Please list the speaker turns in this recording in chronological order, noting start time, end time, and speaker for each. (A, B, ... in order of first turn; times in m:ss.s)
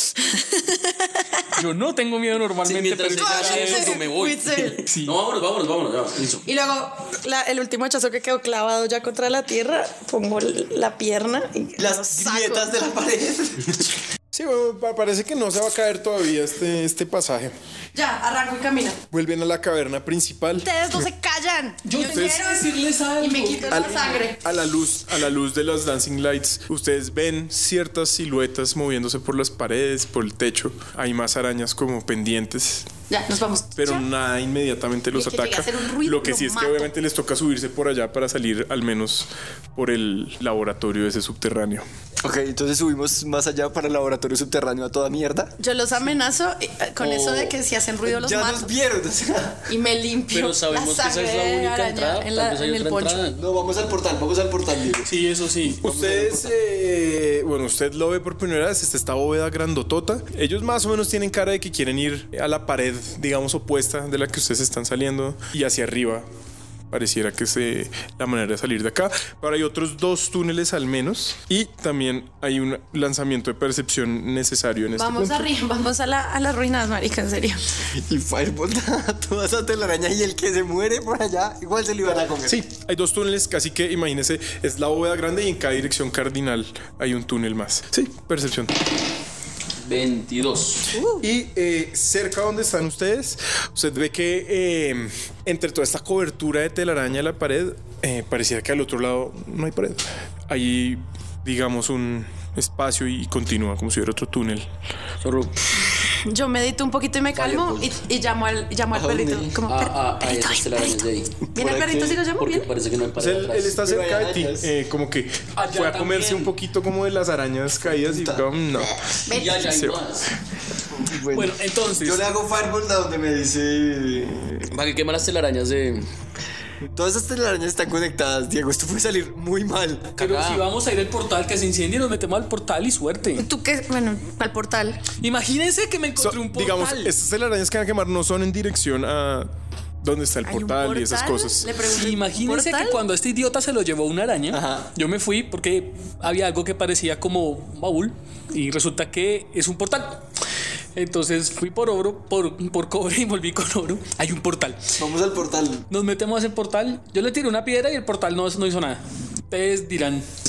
0:00.2-0:01.4 A
0:01.5-0:04.0 B
0:02.6-0:06.4 C
0:03.2-0:04.8 A
0:04.9-0:05.2 B
0:06.4-0:12.7 A
0:11.8-0:13.9 D
0:14.3-0:17.5 E
0:17.9-0:19.0 A
0:19.1-0:21.0 E
0:20.6-0:24.4 A
0:21.8-0:24.1 B
0:22.1-0:22.4 E
0:24.4-0:32.9 E
0:33.1-0:34.0 A
0:33.8-0:41.9 E
0:35.1-0:36.9 A
0:42.2-0:45.5 D
0:45.6-0:48.7 A
0:47.0-0:47.5 C
0:48.0-0:49.6 D
0:49.7-0:53.2 A
0:50.3-0:53.4 C
0:53.4-0:55.2 D
0:55.0-0:55.8 B
0:55.8-1:06.3 E
0:55.8-0:56.5 D
1:06.9-1:15.5 E
1:15.0-1:17.6 A
1:17.9-1:22.6 D
1:22.4-1:28.8 E
1:29.8-1:30.9 C
1:31.2-1:44.7 E
1:45.2-1:45.6 C
1:46.1-1:52.7 A
1:47.3-1:47.9 C
1:48.9-1:49.6 D
1:49.7-1:51.3 C
1:51.5-1:52.2 D
1:52.4-1:53.8 C
1:53.2-2:00.1 E
1:53.7-1:54.7 D
1:55.6-1:56.5 B
1:57.8-1:58.4 D
1:59.3-1:59.6 A
1:59.3-2:00.3 C
2:00.9-2:04.6 D
2:01.3-2:02.3 B
2:04.7-2:06.1 C
2:06.9-2:10.1 D
2:10.2-2:10.6 C
2:10.2-2:13.4 B
2:13.4-2:15.0 A
2:15.2-2:17.1 B
2:16.2-2:19.5 E
2:20.0-2:21.7 E
2:20.4-2:23.0 A
2:21.9-2:30.2 B
2:24.5-2:24.9 D
2:30.9-2:34.8 B
2:35.0-2:35.9 D
2:35.9-2:40.2 B